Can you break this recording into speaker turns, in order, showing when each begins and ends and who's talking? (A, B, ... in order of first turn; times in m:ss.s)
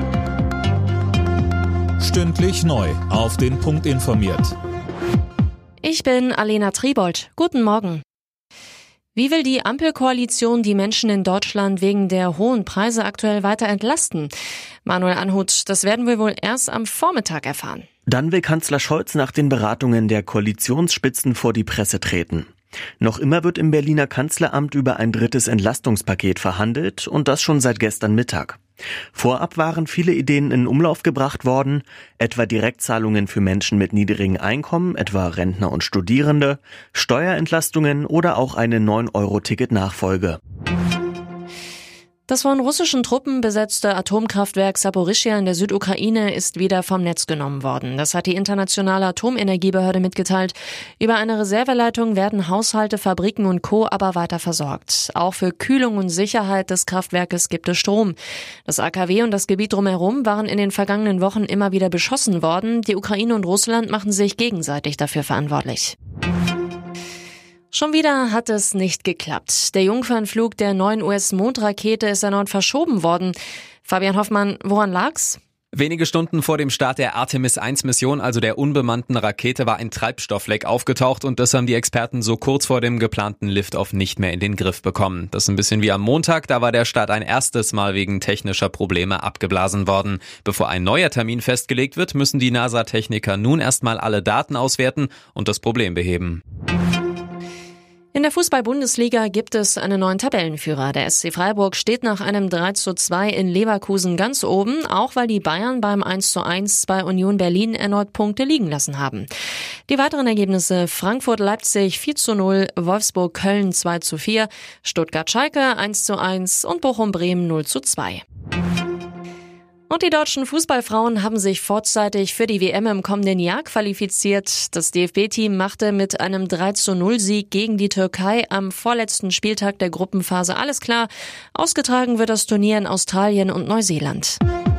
0:02.0-0:04.5 A
0:05.8-0:08.0 B
0:09.1-0:14.3 B
0:14.8-0:17.9 B
0:18.1-0:28.6 C
0:29.1-0:40.4 C
0:42.3-1:06.0 B
1:07.7-1:15.4 B
1:15.7-1:36.4 D
1:38.1-1:49.3 B
1:49.9-1:58.2 B
1:59.9-2:14.4 B